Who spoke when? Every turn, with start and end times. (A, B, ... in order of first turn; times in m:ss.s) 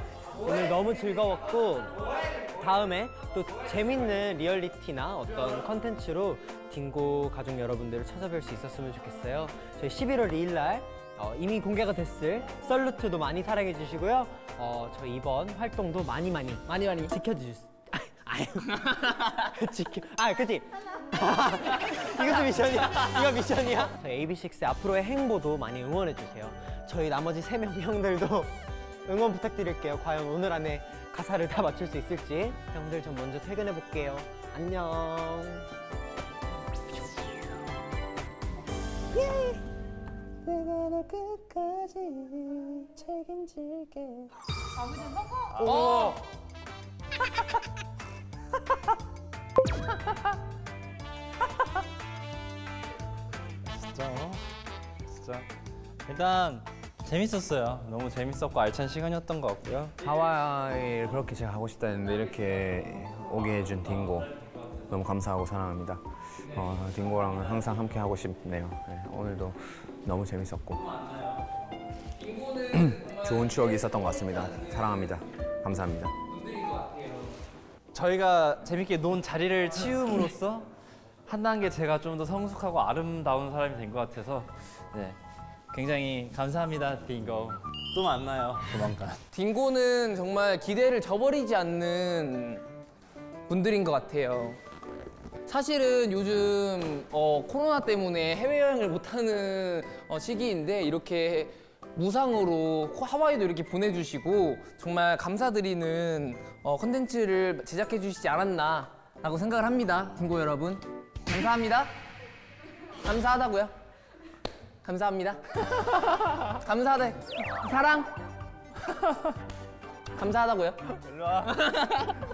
0:00.4-0:35.7 A
0:16.7-0:17.1 B
0:39.1-0:39.6 A
0:40.4-0:44.3 A
0:45.5-0:46.2 C
0:45.6-0:46.2 B
0:53.7-0:54.4 C
0:55.1-0:55.5 C
0:56.0-0:59.9 C
1:00.0-1:04.3 D
1:03.5-1:04.9 C
1:04.9-1:10.8 D
1:06.7-1:08.0 C
1:10.7-1:11.6 C
1:12.2-1:15.2 B
1:13.1-1:16.1 D
1:16.2-1:17.4 B
1:17.9-1:20.7 C
1:21.2-1:25.2 C
1:25.7-1:29.2 C
1:29.3-1:32.6 B
1:33.5-1:34.6 B
1:35.5-1:52.0 B
1:53.0-1:53.7 B
1:54.8-1:58.1 B
2:00.1-2:00.9 B
2:00.9-2:01.6 C
2:01.6-2:02.2 B